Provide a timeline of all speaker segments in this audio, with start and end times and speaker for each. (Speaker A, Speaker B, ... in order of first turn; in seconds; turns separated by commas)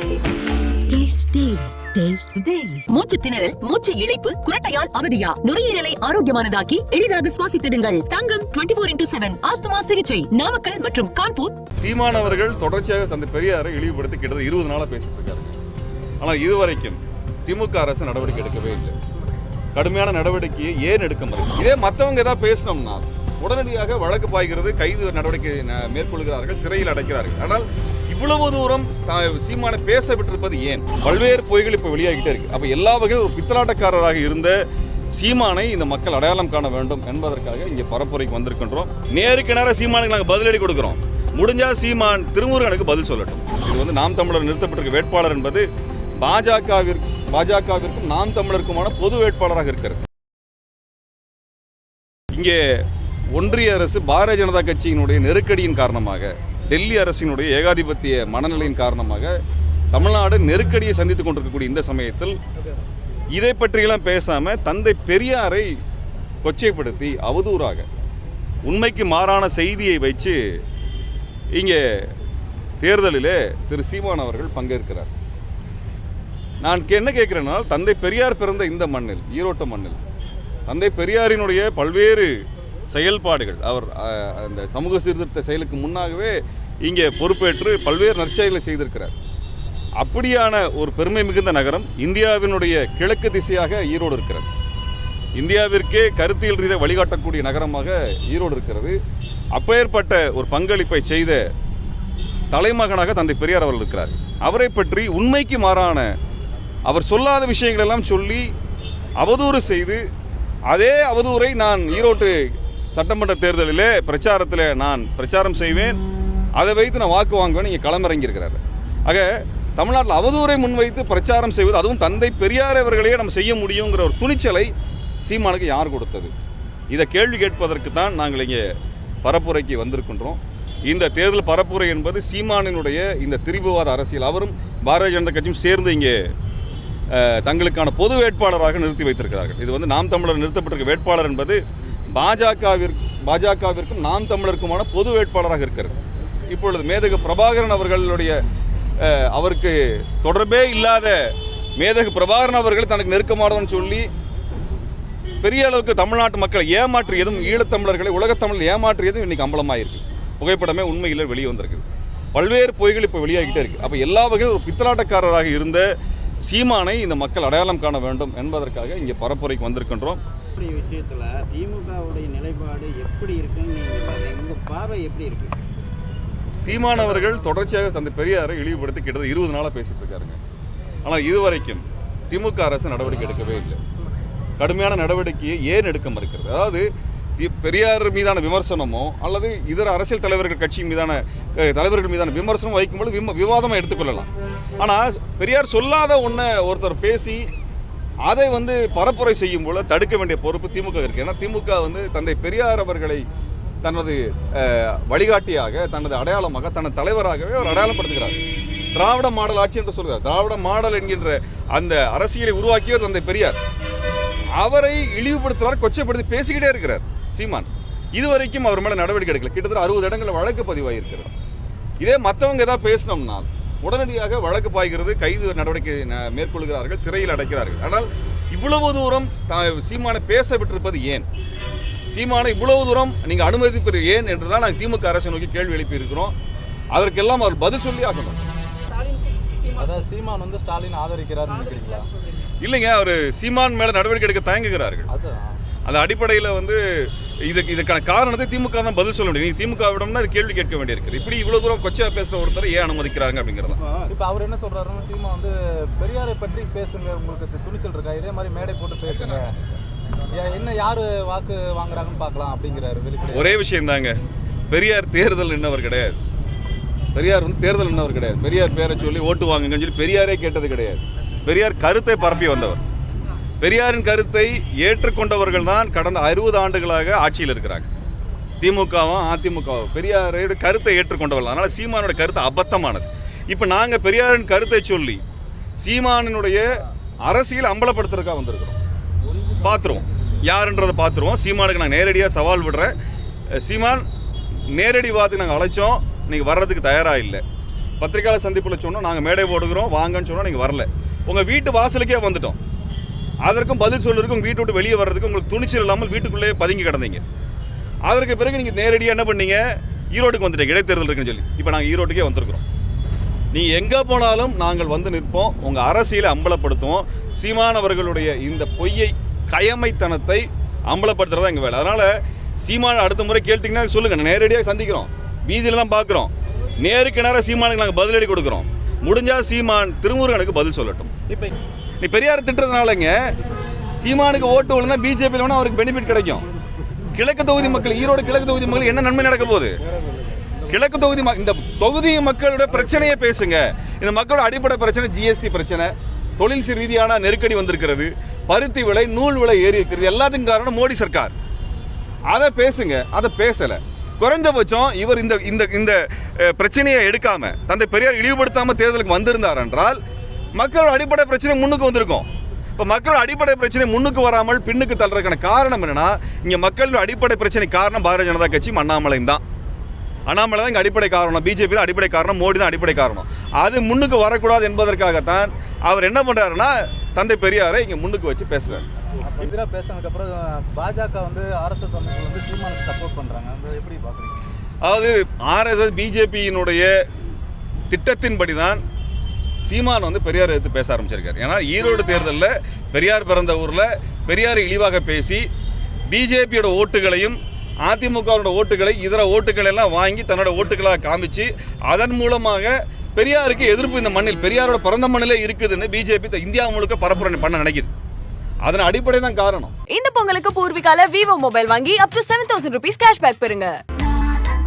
Speaker A: 0.9-11.6, Speaker B: 11.8-15.5, Speaker B: 16.2-18.9, Speaker B: 19.8-34.6, Speaker B: 35.1-45.6, Speaker B: 46.2-50.0, Speaker B: 52.3-59.4, Speaker B: 59.9-62.4, Speaker B: 63.3-65.7, Speaker B: 66.4-67.9, Speaker B: 68.7-70.4, Speaker B: 71.5-72.1, Speaker B: 72.8-75.1, Speaker B: 76.6-80.0, Speaker B: 80.7-82.3, Speaker B: 82.9-89.1, Speaker B: 90.0-94.5, Speaker B: 95.4-99.0, Speaker B: 99.5-101.4, Speaker B: 102.5-106.1, Speaker B: 106.9-108.5, Speaker B: 109.2-110.0, Speaker B: 110.7-116.0, Speaker B: 116.6-124.7, Speaker B: 125.2-126.3, Speaker B: 126.9-128.7, Speaker B: 129.2-136.2, Speaker B: 137.1-141.6, Speaker B: 142.1-146.0, Speaker B: 146.5-148.4, Speaker B: 149.0-154.1, Speaker B: 155.4-165.9, Speaker B: 166.4-170.2, Speaker C: 170.6-175.6, Speaker B: 176.6-180.4, Speaker B: 181.0-183.8, Speaker B: 184.6-186.8, Speaker B: 187.4-197.5, Speaker B: 198.2-203.2, Speaker B: 203.8-208.4, Speaker B: 208.9-213.6, Speaker B: 214.6-221.3, Speaker B: 222.0-231.3, Speaker B: 232.1-236.3, Speaker B: 236.9-238.4, Speaker D: 239.7-242.1, Speaker B: 242.6-245.1, Speaker D: 245.1-245.6, Speaker B: 245.9-253.8, Speaker D: 254.1-259.8, Speaker D: 260.3-263.5, Speaker B: 263.3-264.1, Speaker B: 264.7-266.2, Speaker B: 267.1-272.8, Speaker B: 273.6-277.9, Speaker B: 278.6-285.2, Speaker B: 285.8-286.7, Speaker B: 287.2-288.8, Speaker B: 289.6-293.0, Speaker B: 293.5-294.1, Speaker B: 294.7-297.4, Speaker B: 298.0-302.6, Speaker B: 303.4-307.2, Speaker B: 308.1-309.6, Speaker B: 310.1-312.6, Speaker B: 313.5-322.1, Speaker B: 322.6-331.1, Speaker D: 331.3-331.6, Speaker B: 332.0-333.2, Speaker B: 334.0-336.5, Speaker B: 337.1-339.8, Speaker B: 340.7-351.3, Speaker B: 352.3-360.0, Speaker B: 360.6-369.4, Speaker B: 370.3-378.9, Speaker D: 379.2-384.4, Speaker B: 384.8-386.9, Speaker B: 387.9-388.8, Speaker B: 389.6-395.4, Speaker B: 396.1-407.9, Speaker B: 408.6-409.7, Speaker E: 409.9-413.8